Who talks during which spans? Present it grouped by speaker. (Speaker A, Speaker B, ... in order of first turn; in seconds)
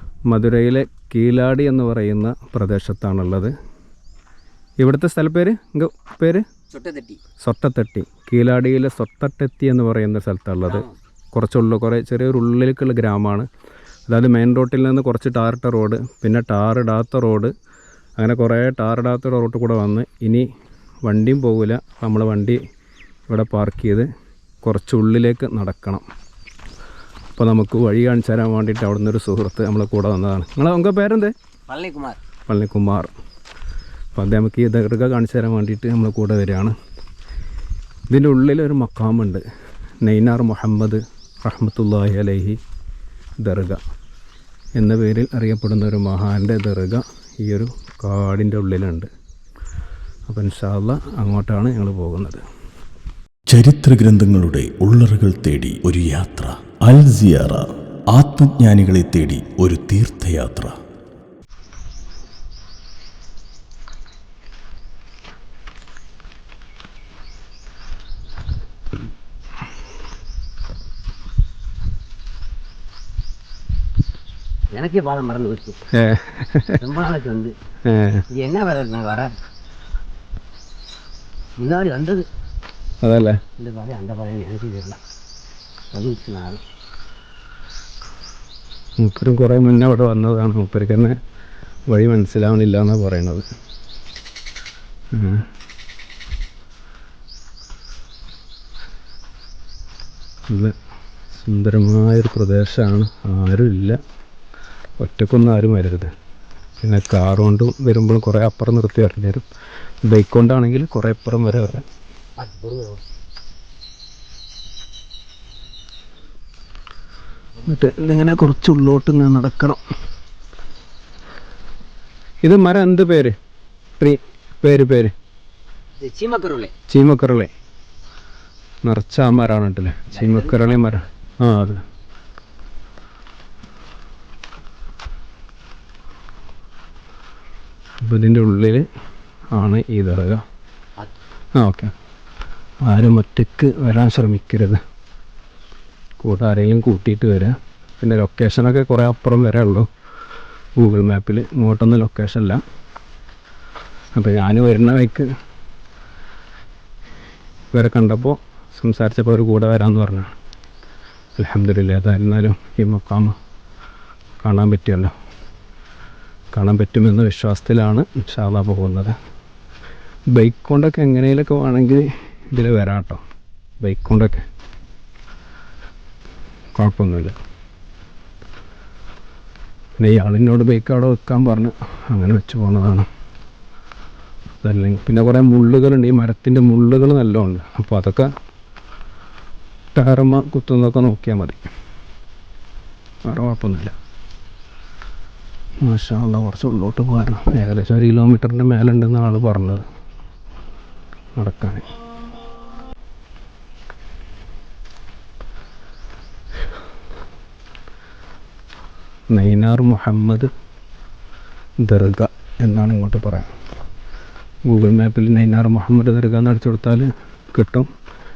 Speaker A: 0.3-3.5, 4.8-6.5, 7.4-13.5, 14.1-17.5, 18.2-20.4, 21.0-22.6, 23.3-24.1, 24.6-26.0, 27.4-31.3, 32.5-33.1, 34.2-36.7, 38.1-39.4, 40.0-42.6, 43.4-43.8, 44.8-49.1, 50.3-52.4, 75.9-76.8, 77.8-78.2, 83.0-83.4, 89.0-91.2, 91.9-93.5, 95.1-95.5, 100.5-100.8, 101.3-104.0, 105.0-106.1, 106.8-109.5, 110.0-111.8, 117.6-119.8, 122.4-123.3, 124.0-125.1, 126.9-127.5, 128.8-131.8, 138.0-138.8, 139.5-140.4, 141.6-141.9, 142.8-144.8, 146.2-149.9, 150.8-152.6, 154.2-155.3, 157.7-160.3, 161.4-163.3, 164.4-165.1, 166.5-169.1, 170.3-173.2, 173.8-174.4, 176.8-177.3, 180.0-183.1, 184.6-188.3, 189.9-191.6, 193.2-193.9, 195.8-199.8, 201.4-201.9, 209.3-210.5, 211.8-213.5, 214.7-217.9
Speaker B: 6.7-7.2, 31.7-32.2, 74.7-75.8, 76.8-77.5, 78.3-79.4, 81.6-82.3, 83.6-85.0, 85.9-86.6, 112.4-113.0, 126.0-126.7, 130.1-130.6
Speaker C: 53.5-60.7